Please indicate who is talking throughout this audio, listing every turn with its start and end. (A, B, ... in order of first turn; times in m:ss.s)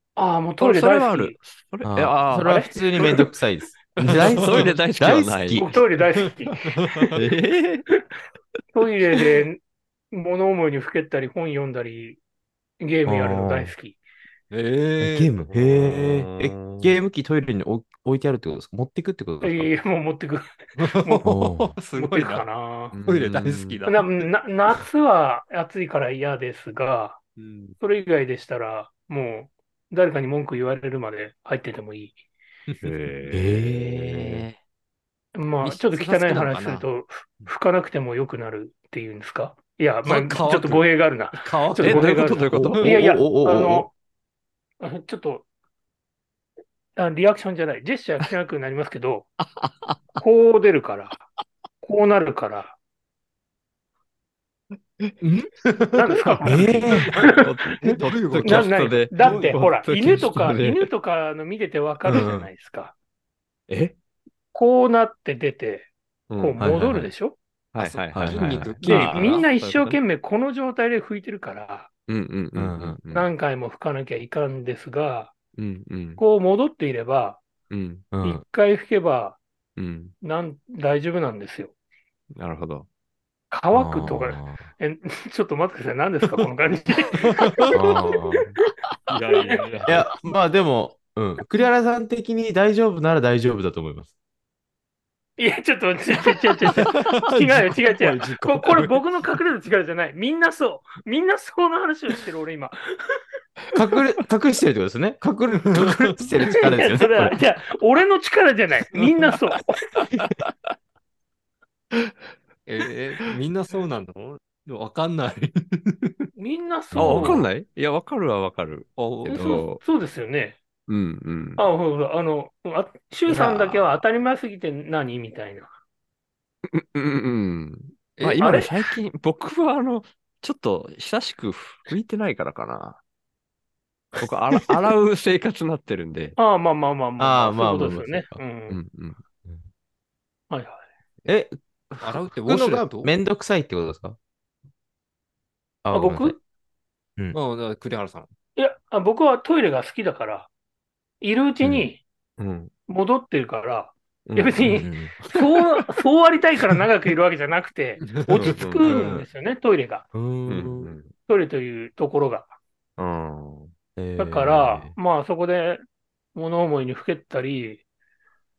0:00.2-0:01.4 A
0:00.6-0:02.5 B
0:01.8-0:05.7 C
0:02.3-0:03.2 A
0:04.0-0:04.6 D
0:04.1-0:05.7 B
0:05.5-0:07.1 A
0:06.6-0:07.1 D
0:07.1-0:07.8 B
0:08.7-0:12.2 A
0:12.8-0:14.0 A
0:13.0-0:13.7 C
0:14.5-0:15.4 D
0:15.0-0:19.7 C
0:15.5-0:16.9 B
0:19.4-0:21.3 A
0:20.8-0:22.4 D
0:21.2-0:21.8 C
0:21.9-0:22.9 A
0:22.9-0:23.8 B
0:23.0-0:24.1 D
0:23.9-0:27.2 A
0:27.4-0:27.7 D
0:27.8-0:32.2 A
0:32.7-0:32.9 D
0:32.8-0:34.5 B
0:33.3-0:34.5 C
0:35.3-0:43.9 A
0:35.6-0:36.9 D
0:40.0-0:42.5 D
0:41.8-0:42.9 B
0:42.5-0:43.9 C
0:44.8-0:45.5 A
0:47.0-0:49.3 A
0:49.6-0:50.2 B
0:50.2-0:51.2 A
0:51.8-0:52.8 A
0:55.2-0:59.7 D
0:55.9-0:57.5 A
0:56.4-0:57.1 C
0:57.4-1:00.9 B
0:58.4-1:02.9 A
1:02.1-1:02.5 C
1:03.7-1:04.0 B
1:04.5-1:07.4 A
1:06.3-1:06.6 B
1:06.6-1:07.1 C
1:07.7-1:10.0 B
1:07.8-1:09.4 D
1:08.1-1:08.7 C
1:08.8-1:11.9 A
1:12.1-1:13.3 B
1:12.5-1:13.0 C
1:13.1-1:15.3 A
1:15.6-1:16.2 B
1:16.2-1:17.4 A
1:17.7-1:18.1 B
1:18.1-1:18.4 C
1:18.2-1:19.4 A
1:19.8-1:20.1 B
1:20.2-1:21.7 A
1:22.4-1:22.9 B
1:23.5-1:27.8 A
1:23.7-1:24.7 C
1:27.2-1:27.5 D
1:27.7-1:28.5 C
1:29.1-1:30.0 B
1:29.1-1:30.0 D
1:29.8-1:34.1 C
1:35.4-1:43.2 A
1:36.9-1:38.9 D
1:43.7-1:47.4 C
1:46.5-1:50.0 A
1:50.2-1:50.5 B
1:52.6-1:56.3 D
1:56.4-1:57.4 A
1:56.9-1:57.4 C
1:56.9-1:59.8 B
1:59.0-1:59.6 D
1:59.3-2:00.6 A
2:00.9-2:01.6 B
2:01.6-2:05.7 A
2:03.3-2:03.9 B
2:06.7-2:13.0 B
2:08.2-2:08.4 D
2:08.4-2:08.7 A
2:14.2-2:16.4 B
2:16.4-2:18.8 A
2:17.2-2:18.4 C
2:18.7-2:19.2 B
2:20.5-2:20.8 A
2:21.2-2:24.2 C
2:22.0-2:23.1 D
2:25.8-2:26.4 C
2:25.9-2:26.4 A
2:27.3-2:28.3 D
2:28.6-2:30.5 A
2:31.2-2:32.0 A
2:32.4-2:32.7 B
2:32.9-2:40.0 A
2:34.2-2:34.7 B
2:34.6-2:35.1 C
2:35.2-2:35.6 B
2:38.0-2:38.5 D
2:38.4-2:39.2 B
2:38.8-2:39.2 C
2:40.1-2:40.9 C
2:40.5-2:41.1 B
2:41.3-2:42.5 A
2:43.0-2:43.7 B
2:44.0-2:45.0 C
2:44.2-2:45.8 A
2:46.3-2:47.8 A